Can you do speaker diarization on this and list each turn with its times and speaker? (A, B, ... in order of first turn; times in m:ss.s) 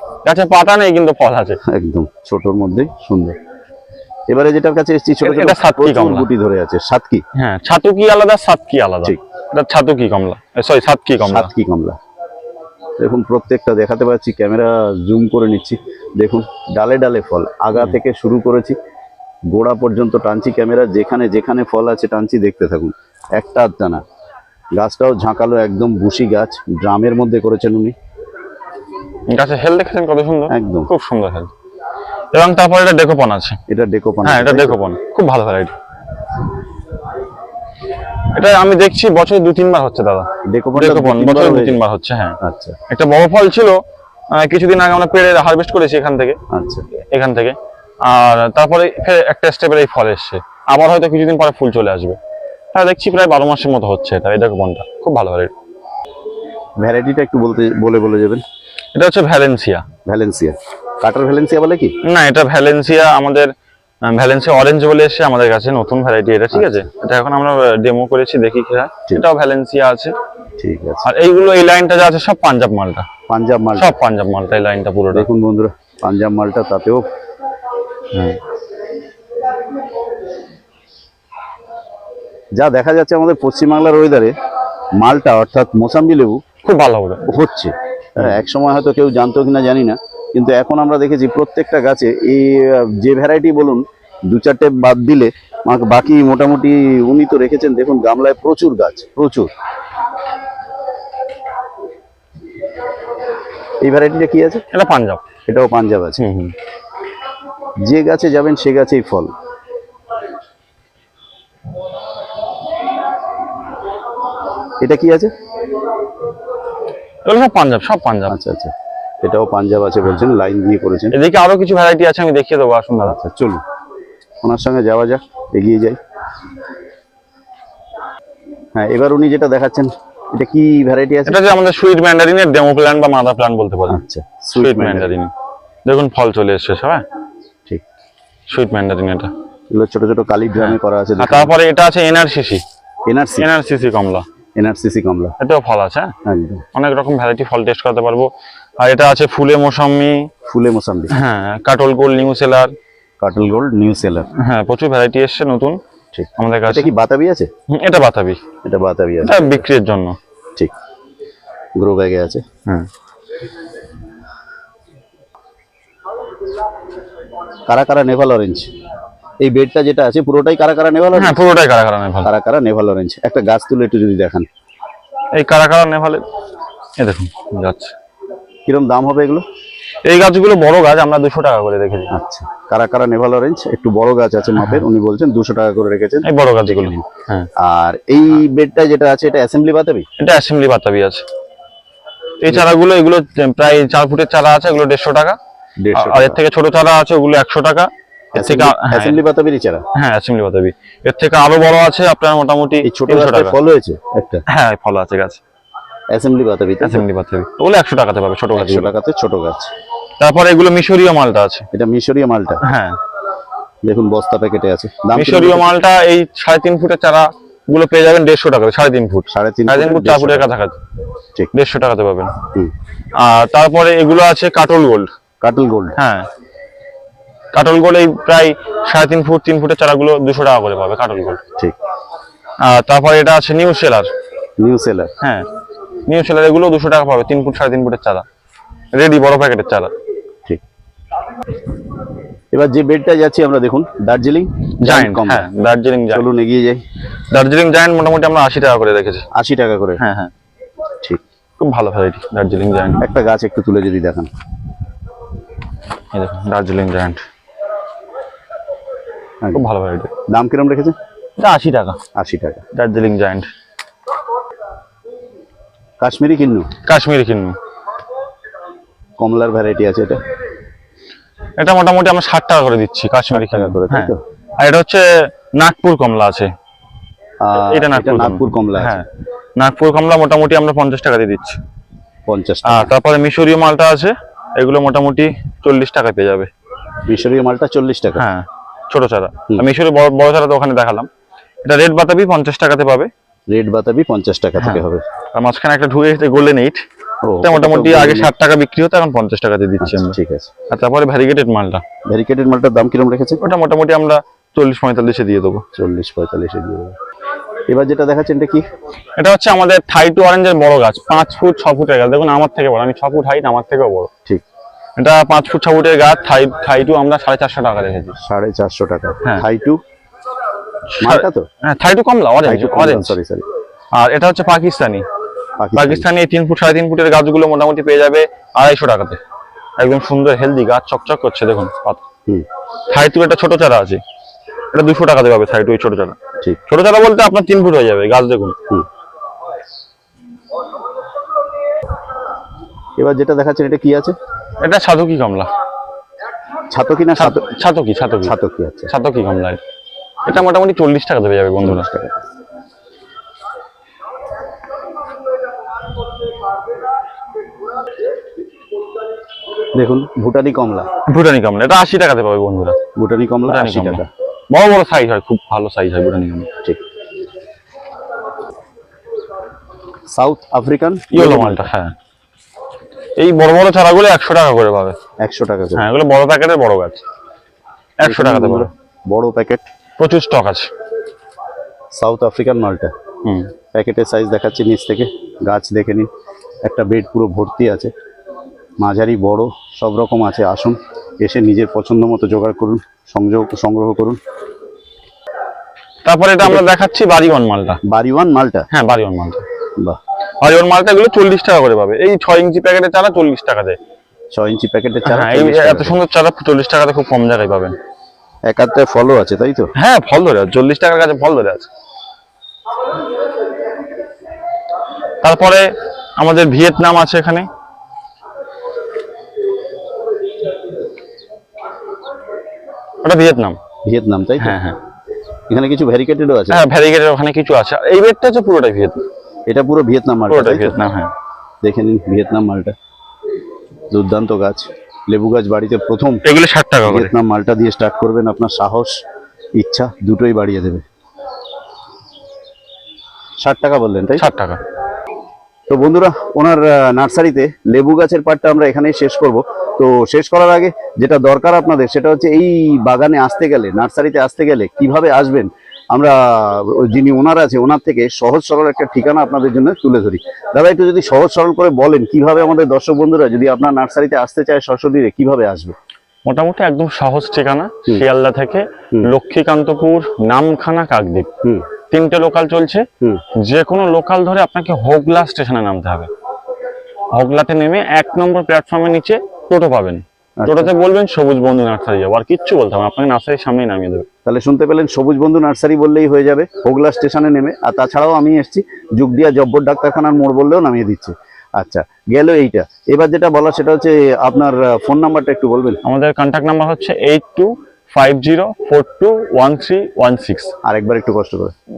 0:00.2-0:01.6 A
0:01.6-0:03.4 B
0:04.3-0:07.2 B
0:05.2-0:06.3 A
0:07.4-0:11.5 A
0:11.2-0:12.0 B
0:13.0-0:18.8 B
0:19.5-0:24.0 B
0:24.7-0:28.0 B
0:29.3-0:31.5 A
0:30.5-0:30.9 B
0:32.3-0:33.6 A
0:33.7-0:34.8 B
0:34.2-0:35.7 A
0:38.3-0:46.4 A
0:40.5-0:41.8 B
0:42.4-0:42.8 B
0:46.5-0:46.8 B
0:47.1-0:52.2 A
0:52.7-0:55.5 A
0:56.8-0:58.4 B
0:59.0-0:59.9 A
1:00.1-1:02.0 B
1:02.0-1:03.5 A
1:04.0-1:10.1 A
1:10.6-1:11.0 B
1:11.0-1:13.1 A
1:13.3-1:14.0 B
1:13.8-1:15.3 A
1:15.1-1:17.1 B
1:18.1-1:18.4 A
1:22.6-1:24.4 B
1:25.0-1:26.4 B
1:26.6-1:27.3 A
1:27.3-1:39.5 B
1:43.8-1:44.6 B
1:44.7-1:45.2 A
1:45.5-1:46.2 B
1:46.2-1:46.6 A
1:47.8-1:49.3 B
1:54.8-1:55.3 B
1:57.2-1:58.4 A
1:58.3-2:01.1 B
2:01.1-2:03.2 A
2:03.1-2:03.6 B
2:04.4-2:06.0 B
2:08.7-2:11.4 B
2:11.3-2:14.0 A
2:13.9-2:15.2 B
2:14.6-2:15.3 A
2:15.9-2:17.0 A
2:18.5-2:19.3 A
2:19.7-2:21.5 B
2:20.6-2:22.6 A
2:23.1-2:23.5 B
2:23.4-2:24.2 A
2:24.6-2:25.4 B
2:25.4-2:26.1 A
2:26.2-2:26.6 B
2:26.8-2:30.3 A
2:30.5-2:31.1 B
2:31.1-2:32.7 A
2:33.2-2:34.3 B
2:34.3-2:35.8 A
2:36.1-2:37.5 B
2:36.4-2:36.9 A
2:37.7-2:38.4 A
2:38.6-2:39.6 B
2:39.2-2:40.2 A
2:41.8-2:42.4 B
2:47.7-2:48.7 B
2:49.4-2:51.4 B
2:51.2-2:52.3 A
2:52.2-2:54.5 B
2:55.4-2:56.2 A
2:57.0-2:57.9 A
2:58.7-2:59.4 B
3:00.0-3:02.1 A
3:02.1-3:10.1 B
3:04.6-3:04.8 A
3:06.2-3:07.5 A
3:10.2-3:11.2 A
3:12.4-3:15.4 A
3:15.8-3:16.4 B
3:15.9-3:19.2 A
3:18.4-3:19.9 B
3:19.9-3:23.6 A
3:22.8-3:24.4 B
3:24.5-3:25.4 A
3:26.1-3:27.0 B
3:26.8-3:28.9 A
3:28.6-3:29.7 B
3:30.2-3:31.7 A
3:31.7-3:32.6 B
3:32.6-3:33.0 A
3:33.8-3:35.7 B
3:35.1-3:40.8 A
3:39.3-3:40.5 B
3:41.5-3:42.3 A
3:43.2-3:45.1 A
3:45.4-3:46.0 B
3:46.0-3:46.3 A
3:47.5-3:51.4 A
3:52.6-3:54.1 A
3:54.6-3:55.1 B
3:55.2-3:55.5 A
3:56.1-3:58.2 A
3:58.9-3:59.9 A
4:02.5-4:05.5 B
4:04.8-4:06.2 A
4:06.1-4:06.8 B
4:07.3-4:09.3 A
4:09.3-4:10.0 B
4:10.0-4:10.3 A
4:11.6-4:13.0 A
4:13.0-4:14.3 B
4:16.1-4:17.2 A
4:19.5-4:20.1 A
4:20.3-4:21.0 B
4:21.4-4:22.0 A
4:22.2-4:22.6 B
4:22.7-4:23.5 A
4:26.0-4:26.7 B
4:26.8-4:27.6 A
4:29.2-4:30.2 B
4:31.6-4:36.5 A
4:33.3-4:34.2 B
4:37.4-4:39.0 B
4:37.5-4:41.6 A
4:42.3-4:42.9 B
4:42.6-4:46.5 A
4:47.0-4:48.2 B
4:48.2-4:51.1 A
4:51.6-4:53.1 A
4:53.5-4:55.0 B
4:55.3-4:56.8 A
4:57.2-4:58.3 B
4:57.4-5:00.2 A
4:59.8-5:00.5 B
5:00.7-5:01.8 A
5:02.1-5:03.4 B
5:03.4-5:05.6 A
5:05.7-5:07.0 B
5:07.7-5:08.7 B
5:09.2-5:14.1 A
5:15.0-5:18.2 A
5:18.2-5:19.8 B
5:20.9-5:23.2 A
5:21.0-5:21.5 B
5:22.4-5:23.4 B
5:23.9-5:25.0 A
5:25.6-5:26.1 B
5:25.8-5:29.2 A
5:29.8-5:32.0 A
5:32.9-5:34.0 A
5:34.7-5:38.6 A
5:43.0-5:44.2 B
5:44.6-5:45.5 A
5:46.7-5:47.5 B
5:47.2-5:48.4 A
5:48.2-5:48.9 B
5:48.9-5:49.6 A
5:50.3-5:51.9 A
5:51.6-5:52.2 B
5:59.8-6:00.9 B
6:01.1-6:02.8 A
6:03.0-6:04.1 B
6:03.5-6:06.5 A
6:10.1-6:11.7 B
6:11.1-6:11.9 A
6:13.2-6:15.0 A
6:15.2-6:15.9 B
6:15.8-6:17.0 A
6:18.0-6:18.7 A
6:18.0-6:19.7 B
6:20.0-6:20.7 A
6:22.0-6:22.9 B
6:23.2-6:23.5 A
6:23.7-6:26.1 B
6:26.6-6:27.9 B
6:28.8-6:34.2 B
6:36.0-6:37.8 A
6:37.8-6:38.7 B
6:38.7-6:39.4 A
6:40.4-6:43.8 A
6:44.3-6:46.0 B
6:45.0-6:47.8 A
6:48.5-6:49.7 B
6:49.8-6:51.7 A
6:55.2-6:57.5 A
7:03.0-7:03.6 A
7:03.8-7:04.6 B
7:04.4-7:04.8 A
7:05.5-7:06.6 B
7:06.5-7:09.0 A
7:09.5-7:10.8 B
7:10.3-7:11.1 A
7:11.6-7:12.8 B
7:13.9-7:16.2 B
7:16.2-7:17.1 A
7:16.8-7:19.0 B
7:19.6-7:20.8 B
7:23.4-7:24.2 B
7:24.2-7:24.6 A
7:25.7-7:45.8 B
7:46.3-7:51.3 A
7:51.9-7:56.1 A
7:57.1-8:04.1 A
8:00.4-8:00.7 B
8:04.2-8:15.8 B
8:15.8-8:20.5 A
8:20.6-8:21.5 B